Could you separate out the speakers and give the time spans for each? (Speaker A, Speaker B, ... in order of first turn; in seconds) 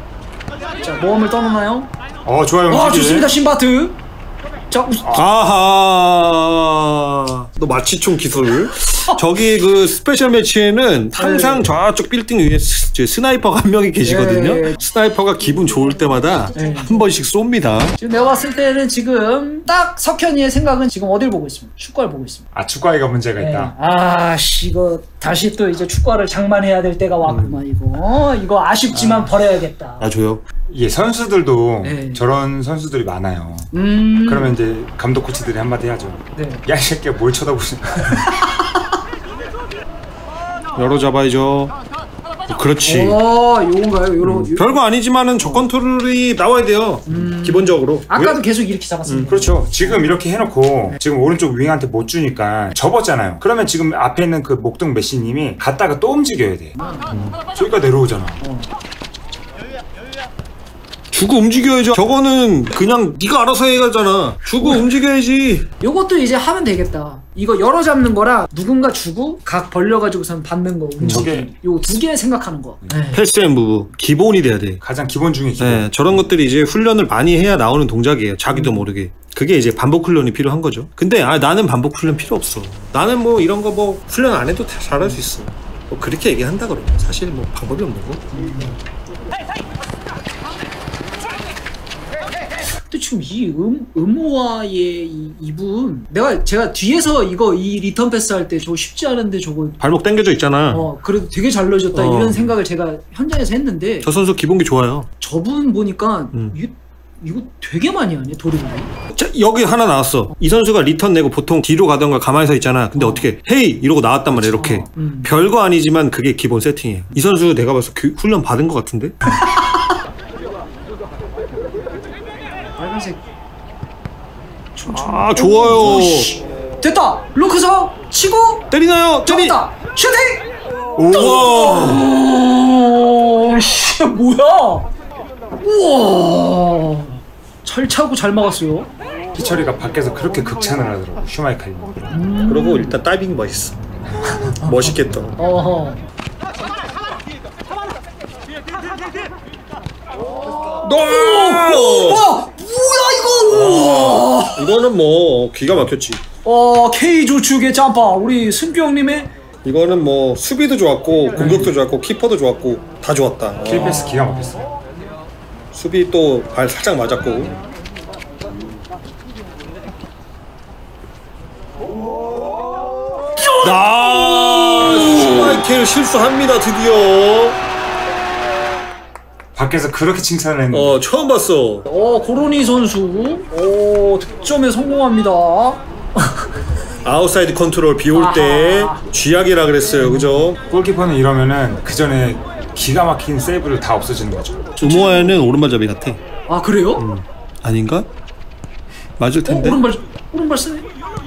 Speaker A: 0.8-1.9, 2.7-4.0, 4.7-5.2, 8.8-9.2, 11.2-11.7, 14.0-14.8, 16.5-17.1, 18.0-22.5, 23.4-30.1, 31.8-32.2, 33.7-34.5, 36.3-36.6, 38.2-38.6, 42.8-44.8, 45.4-45.7, 47.1-50.1, 56.7-57.1, 58.4-58.7, 64.6-64.8, 65.8-73.2, 78.5-78.9, 88.3-88.8, 92.9-99.8, 100.7-104.1, 105.2-108.9, 112.9-113.3, 114.3-115.3, 119.3-119.9, 122.8-123.2, 124.8-128.7, 129.2-130.5, 131.1-134.9, 135.6-138.9, 142.1-143.0, 144.4-146.0, 150.9-154.7, 156.4-159.3, 161.3-161.7, 163.7-164.6, 173.5-175.4, 181.9-186.3, 188.1-189.0, 189.9-190.5, 194.8-195.4, 196.5-197.0, 199.4-200.9
Speaker B: 2.2-3.3, 22.5-23.7, 28.9-29.3, 30.7-33.7, 34.2-38.3, 48.1-48.4, 49.2-56.8, 57.5-58.4, 71.0-71.5, 74.8-76.3, 130.9-131.5, 139.3-142.1, 163.6-164.7, 179.5-181.0, 190.7-194.7
Speaker C: 5.1-18.0, 27.2-27.6, 30.0-30.4, 40.8-41.7, 42.5-43.2, 44.2-48.1, 49.0-49.3, 57.1-57.4, 61.1-65.7, 71.0-71.3, 73.1-74.8, 75.6-88.2, 99.8-100.9, 101.9-102.5, 104.0-105.1, 109.1-119.2, 124.9-126.3, 128.7-129.6, 131.1-132.1, 142.4-143.8, 144.5-145.4, 150.8-152.3, 153.5-156.2, 159.6-164.0, 165.7-167.5, 173.6-177.6, 180.7-181.9, 187.0-190.6, 194.8-196.2, 197.0-198.1, 199.2-199.8